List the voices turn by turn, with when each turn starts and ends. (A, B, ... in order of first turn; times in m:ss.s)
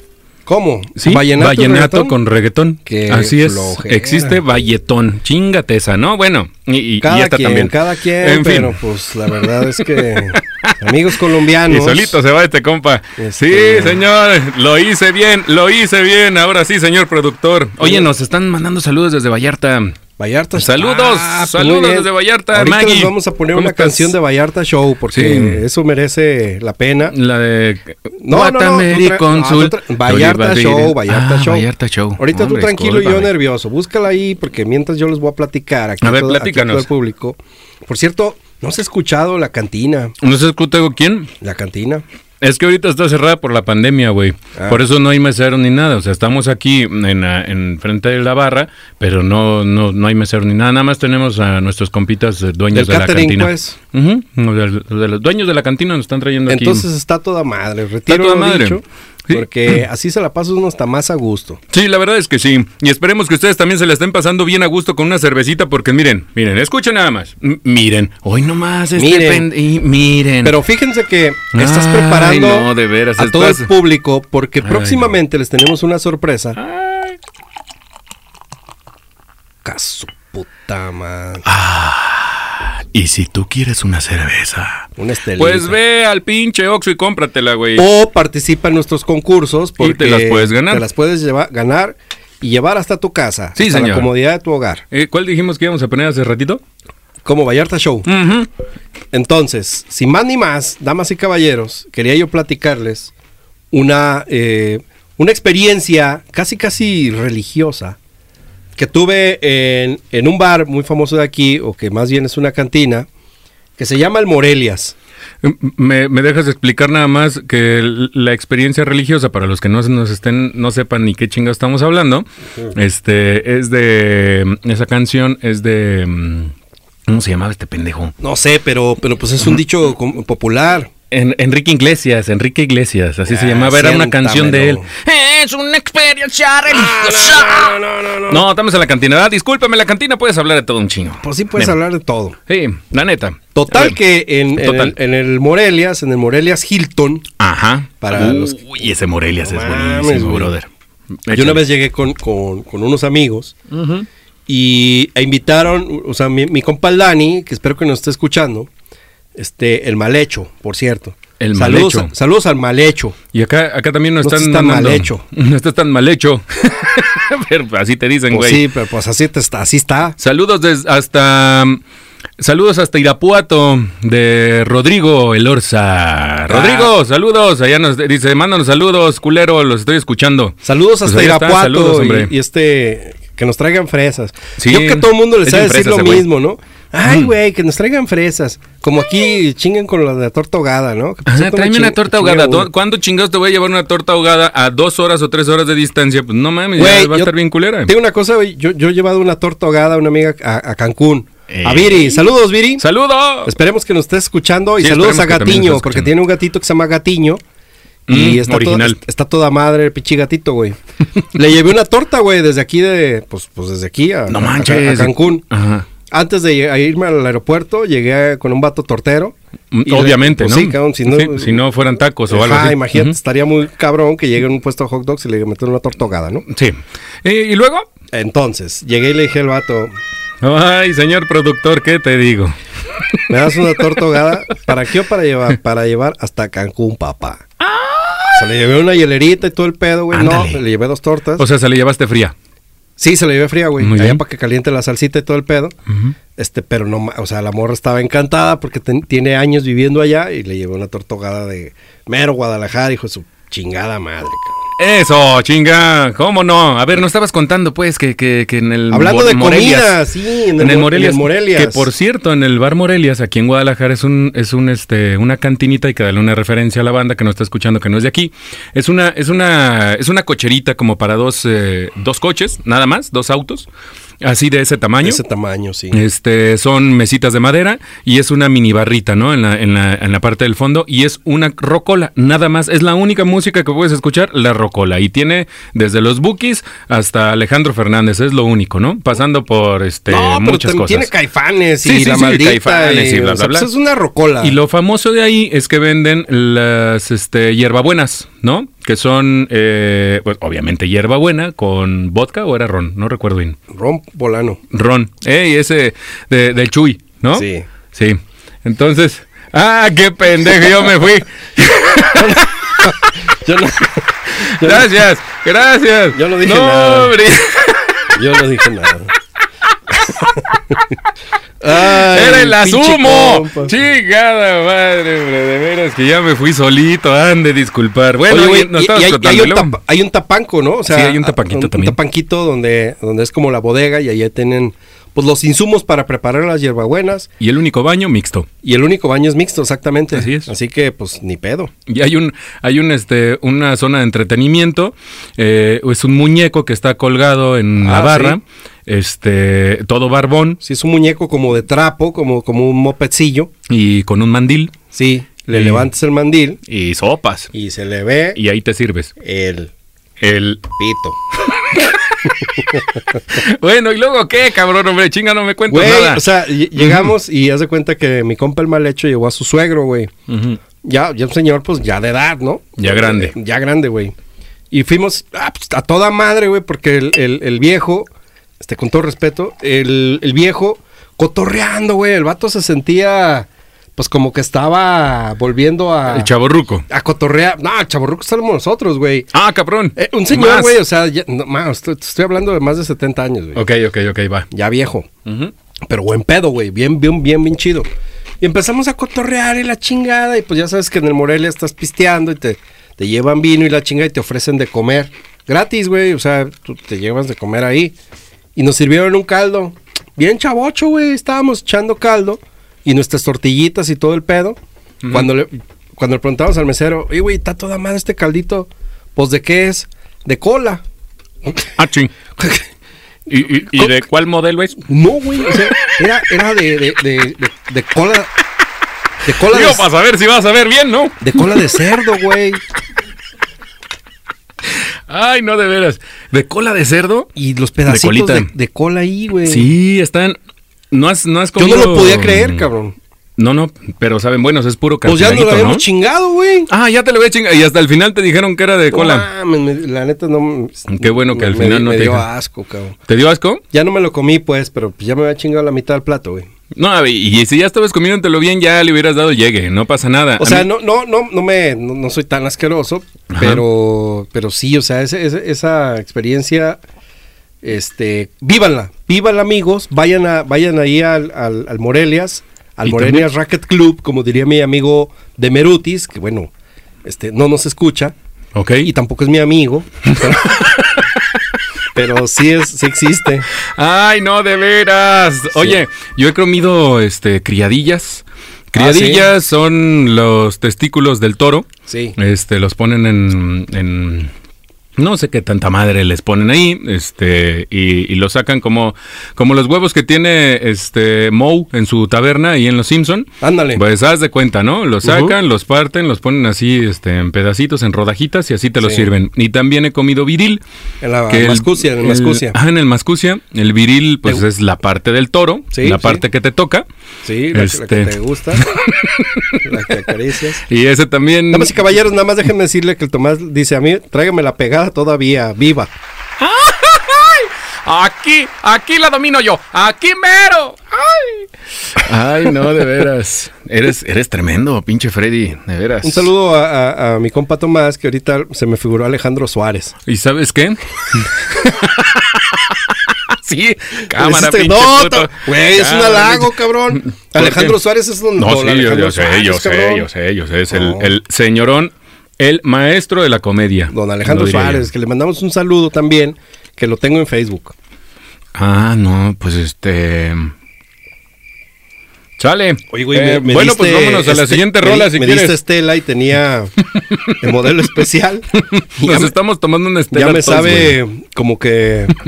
0:00.4-0:02.1 A
0:01.0-0:20.0 B
0:02.9-0:04.4 A
0:07.0-0:12.2 A
0:13.2-0:14.0 A
0:17.8-0:18.1 A
0:20.2-0:27.1 A
0:20.6-0:24.2 B
0:25.1-0:25.6 B
0:27.1-0:33.3 B
0:28.2-0:40.1 A
0:36.0-0:36.9 B
0:40.2-0:41.3 B
0:41.4-0:42.0 A
0:42.4-0:56.9 B
0:44.6-0:44.8 A
0:52.7-0:53.8 A
0:56.5-1:01.6 A
0:58.1-0:59.8 B
1:01.7-1:10.6 B
1:09.0-1:09.5 A
1:10.4-1:16.6 A
1:11.5-1:13.7 B
1:14.6-1:15.1 B
1:16.6-1:17.2 B
1:19.6-1:21.4 A
1:21.4-1:27.9 B
1:25.0-1:25.8 A
1:27.8-1:34.8 A
1:29.8-1:30.8 B
1:33.6-1:34.1 B
1:34.9-1:36.6 B
1:37.2-1:38.1 A
1:38.1-1:38.5 B
1:39.1-1:43.1 A
1:43.7-1:48.0 A
1:48.8-1:53.1 A
1:53.8-1:55.0 A
1:55.4-2:06.5 B
2:07.1-2:08.1 B
2:08.2-2:10.9 A
2:11.1-2:21.8 B
2:13.3-2:14.9 A
2:16.7-2:18.4 A
2:21.2-2:22.4 A
2:22.5-2:24.0 B
2:23.6-2:27.3 A
2:24.6-2:24.9 B
2:27.4-2:30.7 B
2:28.0-2:28.6 A
2:29.4-2:30.5 A
2:31.3-2:31.6 B
2:31.3-2:33.6 A
2:33.7-2:34.1 B
2:34.5-2:38.7 A
2:39.4-2:43.2 A
2:41.4-2:42.1 B
2:43.3-2:48.6 B
2:44.2-2:45.2 A
2:48.3-2:50.2 A
2:50.2-2:51.8 B
2:52.4-3:02.3 B
2:56.5-2:56.9 A
3:00.6-3:12.7 A
3:04.6-3:06.3 B
3:07.1-3:07.3 B
3:11.3-3:17.9 B
3:16.8-3:22.8 A
3:21.5-3:23.5 B
3:23.4-3:27.4 A
3:24.8-3:26.1 B
3:28.1-3:29.0 B
3:28.1-3:35.4 A
3:34.3-3:35.9 B
3:36.1-3:41.6 A
3:39.7-3:43.2 B
3:42.3-3:46.4 A
3:46.5-3:47.9 B
3:48.1-3:49.9 A
3:50.4-3:54.0 B
3:53.3-3:57.4 A
3:57.6-3:58.5 B
3:58.3-4:01.4 A
4:00.1-4:00.6 B
4:01.4-4:02.4 B
4:03.0-4:05.8 A
4:03.8-4:04.2 B
4:05.9-4:06.1 B
4:06.4-4:14.6 A
4:14.8-4:20.0 B
4:18.9-4:21.9 A
4:20.6-4:33.7 B
4:34.2-4:35.2 B
4:35.0-4:36.0 A
4:35.9-4:51.1 B
4:50.1-4:54.6 A
4:51.8-4:53.7 B
4:54.4-5:03.6 B
5:03.7-5:04.6 A
5:04.7-5:12.9 B
5:07.3-5:07.7 A
5:12.1-5:15.0 A
5:14.3-5:18.2 B
5:16.1-5:17.2 A
5:18.1-5:19.1 A
5:19.9-5:20.6 B
5:20.0-5:20.8 A
5:21.6-5:23.8 A
5:21.7-5:29.8 B
5:28.3-5:37.3 A
5:30.9-5:32.0 B
5:37.4-5:38.5 B
5:38.6-5:41.7 A
5:40.1-5:40.5 B
5:41.9-5:50.6 B
5:47.8-5:48.4 A
5:50.6-5:53.5 A
5:53.7-5:54.7 B
5:54.9-5:56.6 A
5:55.5-5:55.9 B
5:56.7-5:57.5 B
5:57.5-5:58.4 A
5:58.4-5:59.1 B
5:59.2-5:59.7 A
6:00.2-6:00.8 B
6:00.8-6:01.2 A
6:01.4-6:02.6 B
6:02.4-6:03.2 A
6:03.3-6:07.1 B
6:05.7-6:10.1 A
6:10.3-6:10.6 B
6:10.8-6:14.1 A
6:12.8-6:13.3 B
6:14.7-6:18.1 A
6:18.6-6:26.3 A
6:26.1-6:26.8 B
6:26.9-6:29.3 A
6:29.3-6:30.8 B
6:30.0-6:33.6 A
6:33.6-6:34.5 B
6:34.5-6:35.1 A
6:35.2-6:35.5 B
6:35.9-6:37.9 A
6:38.4-6:48.0 A
6:48.6-6:54.6 A
6:55.0-6:55.3 B
6:55.1-7:00.8 A
7:01.8-7:02.1 B
7:02.4-7:02.7 A
7:03.3-7:04.8 B
7:04.9-7:08.3 A
7:05.4-7:05.7 B
7:09.2-7:09.9 A
7:09.3-7:11.7 B
7:11.2-7:12.6 A
7:14.7-7:17.3 B
7:17.4-7:19.7 A
7:17.9-7:18.5 B
7:19.4-7:20.4 B
7:20.9-7:22.6 B
7:21.6-7:23.0 A
7:23.4-7:25.8 B
7:25.0-7:26.7 A
7:26.7-7:29.3 B
7:28.9-7:33.0 A
7:30.9-7:32.3 B
7:33.1-7:33.6 B
7:33.7-7:36.5 A
7:36.7-7:40.7 B
7:40.4-7:46.8 A
7:43.3-7:43.6 B
7:47.6-7:56.5 A
7:52.8-7:53.3 B
7:57.0-7:58.1 A
7:58.5-7:58.9 B
7:58.8-8:00.8 A
8:00.2-8:01.4 B
8:01.9-8:03.5 A
8:03.5-8:14.3 B
8:08.8-8:09.3 A
8:11.9-8:12.2 A
8:15.0-8:30.6 B
8:23.4-8:23.8 A
8:25.0-8:25.4 A
8:28.8-8:29.1 A
8:31.0-8:32.6 A
8:31.3-8:36.9 B
8:35.7-8:36.2 A
8:37.2-8:38.7 A
8:37.5-8:39.9 B
8:39.6-8:40.6 A
8:40.6-8:41.8 B
8:41.5-8:45.9 A
8:46.4-8:56.3 B
8:56.0-8:59.9 A
9:00.1-9:07.8 B
9:04.1-9:10.1 A
9:08.4-9:14.9 B
9:10.7-9:11.1 A
9:13.9-9:17.8 A
9:18.6-9:20.5 B
9:22.4-9:25.6 B
9:22.9-9:26.8 A
9:26.9-9:27.5 B
9:27.3-9:29.3 A
9:28.6-9:31.0 B
9:30.1-9:32.2 A